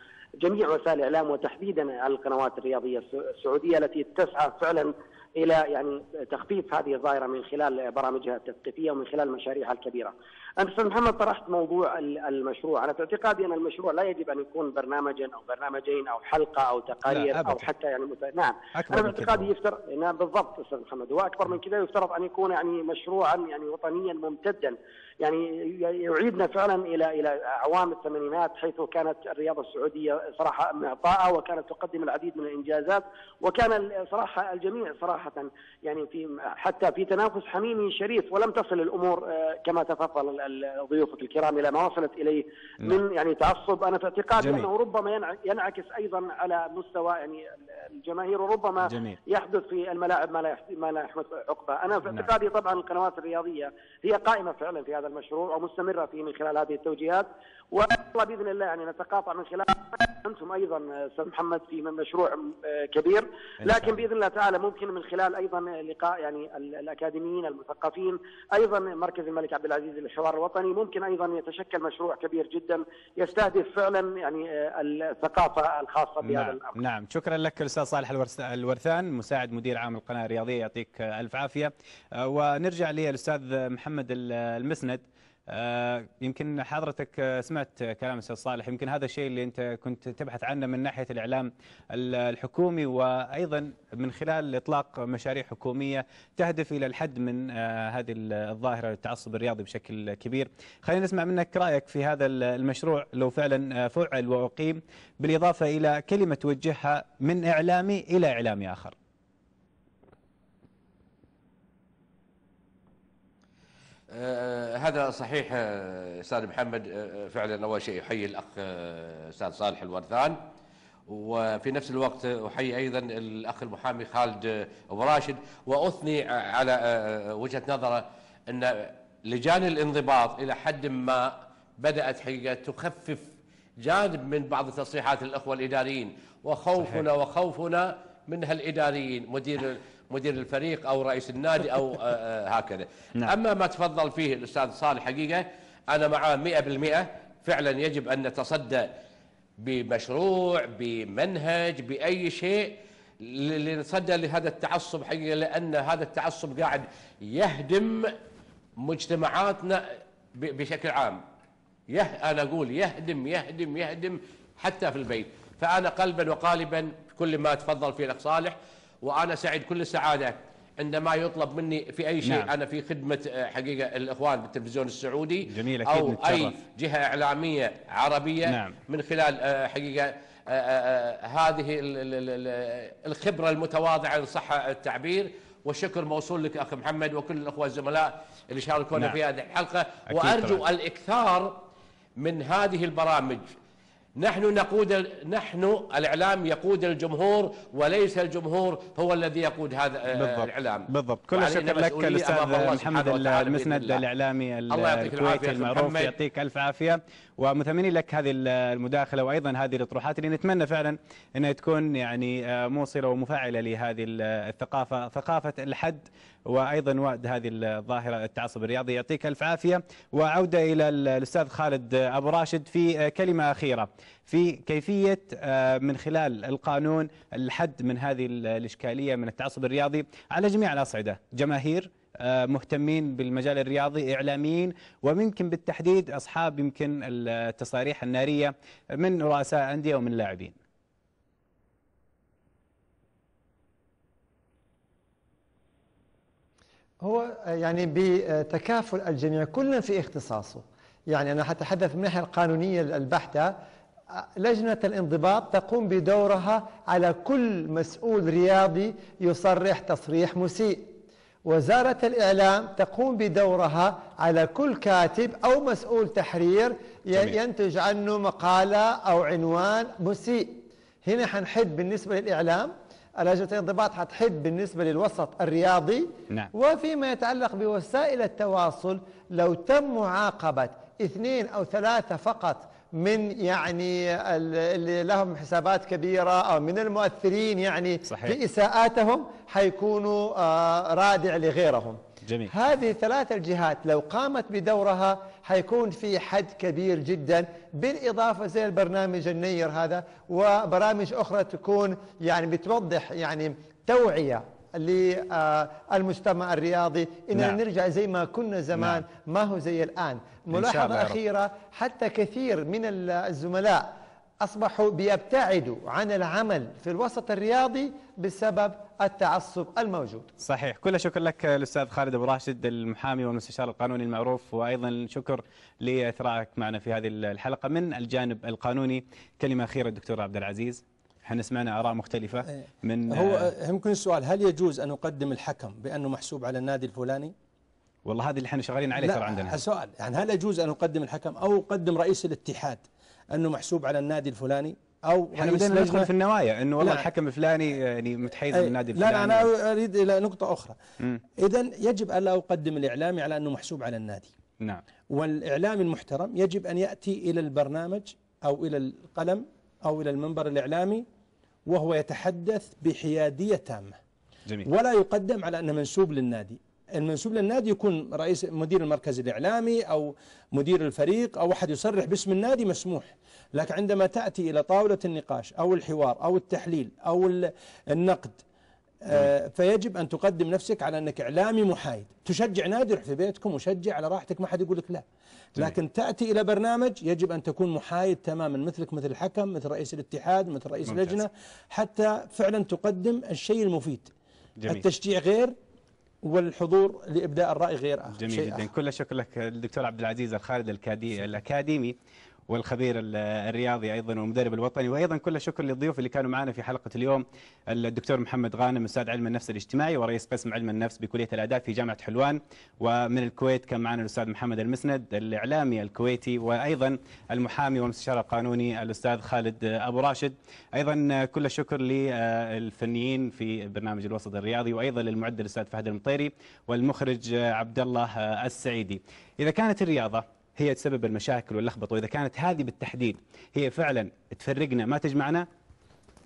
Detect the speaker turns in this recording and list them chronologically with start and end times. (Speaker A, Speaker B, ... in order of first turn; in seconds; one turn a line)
Speaker A: 0.4-76.8
Speaker B: 17.1-17.7
Speaker B: 18.7-19.5
Speaker B: 44.4-44.7
Speaker B: 48.8-49.2
Speaker B: 63.6-64.0
Speaker B: 76.2-108.9
Speaker C: 114.1-120.4
Speaker C: 121.1-133.2
Speaker C: 133.8-148.9
Speaker C: 149.6-158.1
Speaker C: 158.8-161.2
Speaker C: 161.9-191.6
Speaker B: 172.2-172.5
Speaker B: 175.5-176.6
Speaker B: 178.4-178.8
Speaker B: 188.9-189.2
Speaker B: 190.1-190.6
Speaker C: 192.2-193.5
Speaker C: 194.2-204.0
Speaker B: 200.1-240.6
Speaker C: 204.7-206.1
Speaker D: 247.0-253.5
Speaker D: 254.2-260.9
Speaker D: 261.4-292.0
Speaker B: 288.1-288.4
Speaker B: 292.3-292.5
Speaker D: 292.5-313.9
Speaker B: 308.7-309.0
Speaker B: 310.5-311.2
Speaker D: 314.4-320.3
Speaker B: 320.4-333.5
Speaker E: 333.1-337.3
Speaker B: 338.1-339.6
Speaker E: 339.0-346.1
Speaker B: 345.4-349.5
Speaker E: 346.8-347.1
Speaker E: 348.5-350.8
Speaker E: 351.4-354.3
Speaker E: 355.1-361.0
Speaker E: 361.7-364.0
Speaker E: 364.6-378.4
Speaker E: 379.0-385.0
Speaker E: 385.6-394.1
Speaker B: 390.9-391.2
Speaker B: 394.6-394.9
Speaker E: 394.7-395.5
Speaker E: 396.2-398.7
Speaker B: 398.1-401.9
Speaker B: 402.5-435.4